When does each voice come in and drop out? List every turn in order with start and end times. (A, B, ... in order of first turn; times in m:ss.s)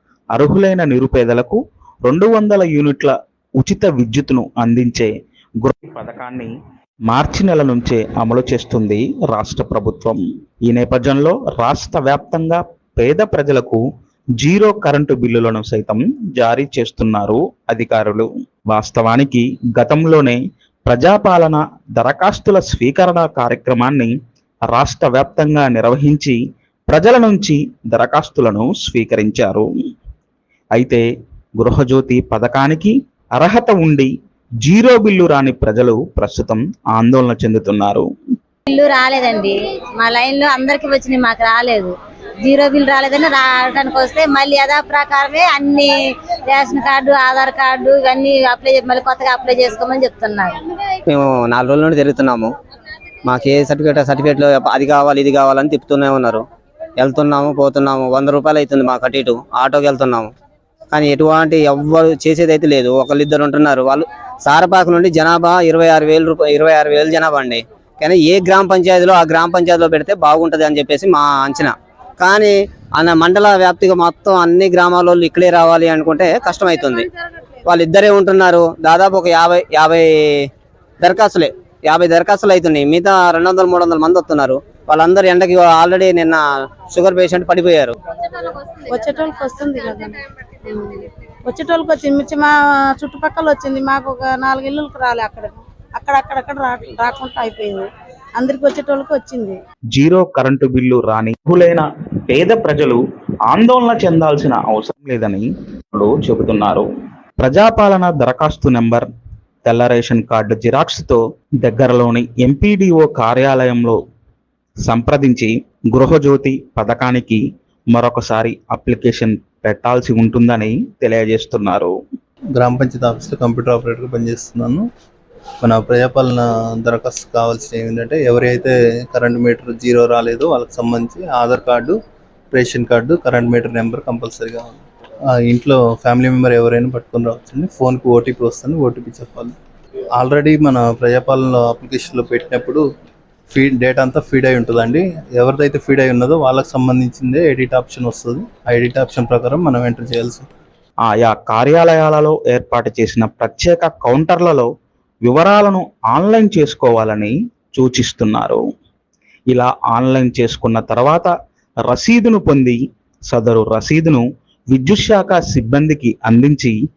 0:00.3-0:05.1 A
0:05.6-0:06.5 A
0:07.1-0:13.8 A
0:14.4-0:24.1 A
0:24.7-0:26.4 A
0:26.9-0:29.7 A
0:30.8-0:31.0 A
0:31.6-0:34.1 A
0:34.6-0:38.1 A
0:38.7-0:50.7 B
0:51.1-0:52.5 C
0:53.2-0:56.4 C
0:57.0-1:00.3 C
1:00.9-1:17.1 C
1:17.6-1:20.5 C
1:21.0-1:28.0 C
1:28.3-1:39.6 D
1:39.9-1:46.8 A
1:47.4-1:49.1 A
1:49.6-1:54.0 A
1:54.8-1:57.4 A
1:57.9-2:02.0 A
2:02.6-2:04.8 E
2:05.6-2:12.0 E
2:12.5-2:14.7 E
2:15.4-2:19.5 E
2:20.2-2:22.8 E
2:23.5-2:30.5 E
2:31.0-2:34.7 A
2:35.2-2:38.6 A
2:39.5-2:41.3 A
2:41.9-2:46.7 A